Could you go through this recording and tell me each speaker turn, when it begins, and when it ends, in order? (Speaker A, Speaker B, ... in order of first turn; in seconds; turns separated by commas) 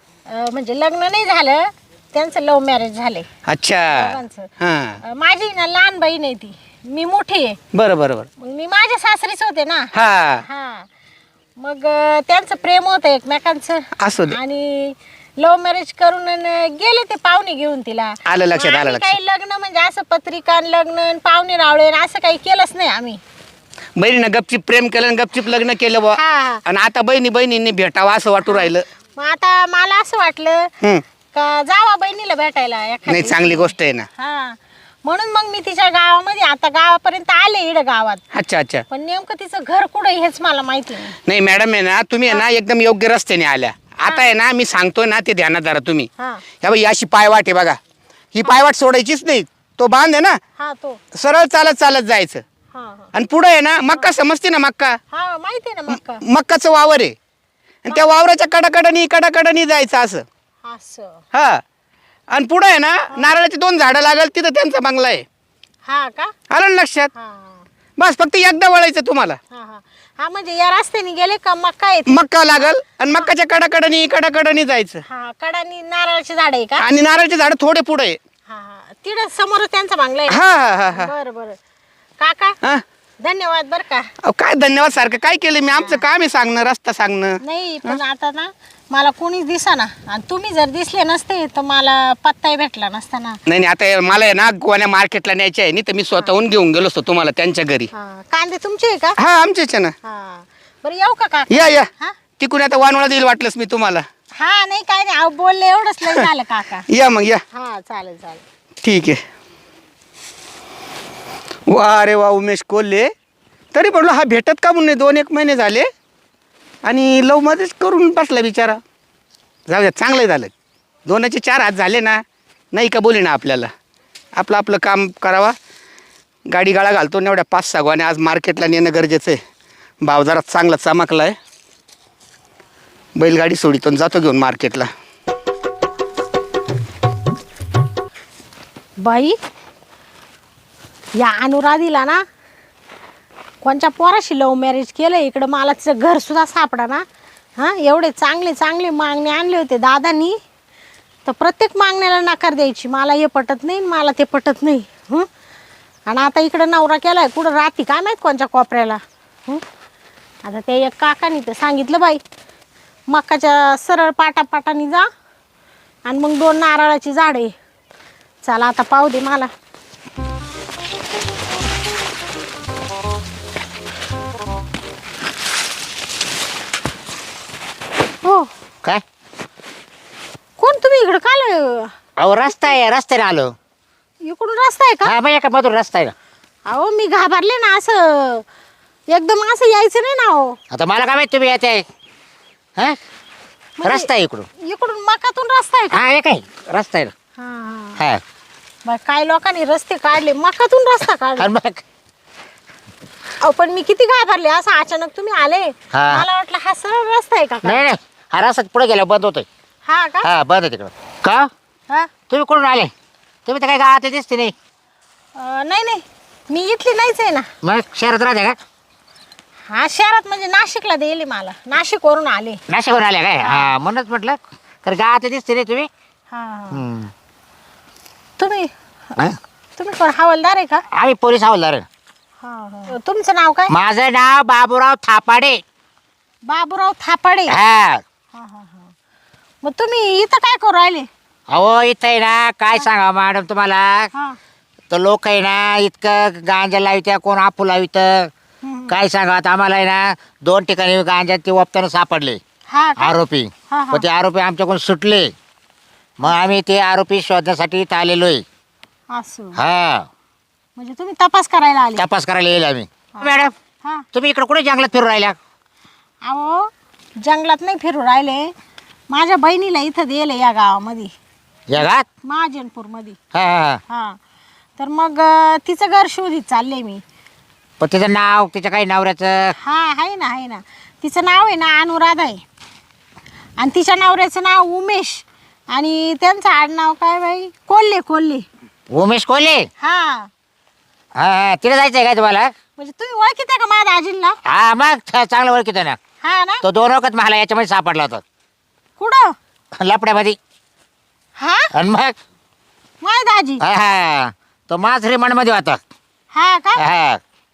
Speaker A: 0.3-3.3, Speaker B: 3.5-5.0, Speaker A: 3.9-4.5, Speaker A: 5.0-7.6, Speaker B: 7.7-8.3, Speaker A: 8.4-9.9, Speaker B: 9.9-10.4, Speaker A: 10.5-10.9, Speaker A: 11.6-23.2, Speaker B: 14.0-14.4, Speaker B: 18.3-19.2, Speaker B: 24.0-28.9, Speaker A: 26.1-26.6, Speaker A: 28.5-30.7, Speaker A: 31.3-38.2, Speaker B: 33.1-34.1, Speaker B: 38.3-38.9, Speaker A: 38.9-41.1, Speaker B: 41.3-46.1, Speaker A: 44.0-44.3, Speaker A: 46.2-46.4, Speaker B: 46.6-47.8, Speaker B: 48.3-50.4, Speaker A: 50.6-51.0, Speaker B: 51.1-52.4, Speaker A: 52.7-53.1, Speaker B: 53.1-55.0, Speaker A: 55.1-56.2, Speaker B: 55.9-57.1, Speaker B: 57.8-60.2, Speaker A: 57.9-58.2, Speaker A: 60.6-61.2, Speaker B: 61.3-61.6, Speaker B: 62.3-65.2, Speaker A: 65.8-66.3, Speaker B: 66.5-67.1, Speaker A: 67.1-67.7, Speaker B: 68.0-69.4, Speaker A: 69.5-73.3, Speaker B: 72.1-75.0, Speaker A: 75.1-76.8, Speaker B: 76.8-78.2, Speaker A: 78.5-81.6, Speaker B: 80.3-81.1, Speaker A: 82.2-82.6, Speaker A: 83.2-84.1, Speaker B: 84.2-88.0, Speaker A: 85.7-86.0, Speaker A: 87.4-93.4, Speaker B: 93.5-97.9, Speaker A: 97.9-99.2, Speaker B: 99.2-100.0, Speaker A: 100.0-102.2, Speaker B: 101.5-101.9, Speaker B: 102.4-104.1, Speaker A: 104.4-106.9, Speaker B: 106.9-107.4, Speaker A: 107.5-108.4, Speaker B: 108.8-109.2, Speaker B: 111.7-113.1, Speaker B: 113.7-115.9, Speaker B: 116.8-118.8, Speaker B: 119.7-120.5, Speaker B: 121.1-123.7, Speaker B: 124.4-125.6, Speaker B: 126.5-129.4, Speaker B: 130.0-131.4, Speaker B: 133.2-134.9, Speaker A: 139.0-139.4, Speaker A: 141.2-142.2, Speaker A: 143.6-147.0, Speaker A: 147.6-150.4, Speaker A: 151.2-155.3, Speaker A: 156.1-159.6, Speaker A: 160.4-162.2, Speaker A: 163.1-165.1, Speaker A: 166.1-167.5, Speaker A: 168.4-169.5, Speaker A: 178.2-178.5, Speaker A: 180.6-181.9, Speaker C: 182.2-183.5, Speaker A: 184.2-185.1, Speaker C: 185.1-186.1, Speaker A: 186.7-188.4, Speaker A: 189.1-190.6, Speaker C: 190.7-191.8, Speaker A: 193.8-194.1, Speaker C: 193.8-194.5, Speaker A: 194.6-196.0, Speaker C: 195.9-197.1, Speaker A: 197.4-198.0, Speaker A: 198.8-201.5, Speaker C: 201.4-201.8, Speaker A: 203.4-207.9, Speaker C: 205.9-206.3, Speaker C: 207.6-209.5, Speaker A: 209.8-210.3, Speaker C: 210.2-211.5, Speaker C: 212.3-212.9, Speaker C: 213.5-214.5, Speaker A: 215.4-217.5, Speaker C: 217.6-218.6, Speaker A: 219.7-222.6, Speaker C: 222.7-225.9, Speaker A: 223.4-223.7, Speaker A: 226.3-226.8, Speaker C: 226.7-227.1, Speaker A: 228.4-228.7, Speaker A: 229.8-230.8, Speaker C: 230.9-231.9, Speaker A: 232.4-233.7, Speaker C: 233.7-235.6, Speaker A: 236.5-237.6, Speaker C: 237.5-238.0, Speaker A: 238.3-238.9, Speaker A: 239.6-241.1, Speaker C: 241.5-244.1, Speaker C: 244.9-248.3, Speaker A: 248.6-248.9, Speaker C: 248.9-252.4, Speaker A: 252.7-253.2, Speaker C: 253.0-255.3, Speaker A: 253.7-254.1, Speaker C: 256.2-258.4, Speaker A: 259.1-259.6, Speaker C: 259.6-260.1, Speaker A: 260.8-262.1, Speaker C: 262.0-263.5, Speaker A: 263.1-264.1, Speaker C: 264.1-265.4, Speaker A: 266.2-268.5, Speaker A: 269.1-271.1, Speaker C: 271.7-272.1, Speaker A: 272.2-273.2, Speaker C: 273.3-273.8, Speaker A: 273.9-274.2, Speaker A: 274.8-277.0, Speaker C: 277.8-279.6, Speaker A: 279.6-282.4, Speaker A: 283.6-288.4, Speaker C: 288.9-289.7, Speaker A: 289.8-290.3, Speaker C: 291.2-292.5, Speaker A: 292.8-294.4, Speaker C: 294.5-296.0, Speaker A: 296.2-296.6, Speaker C: 296.6-298.2, Speaker A: 299.0-299.3, Speaker C: 299.8-300.4, Speaker A: 301.4-301.7, Speaker C: 301.7-302.2, Speaker A: 303.0-303.6, Speaker C: 303.6-305.8, Speaker A: 306.3-306.8, Speaker C: 306.8-307.2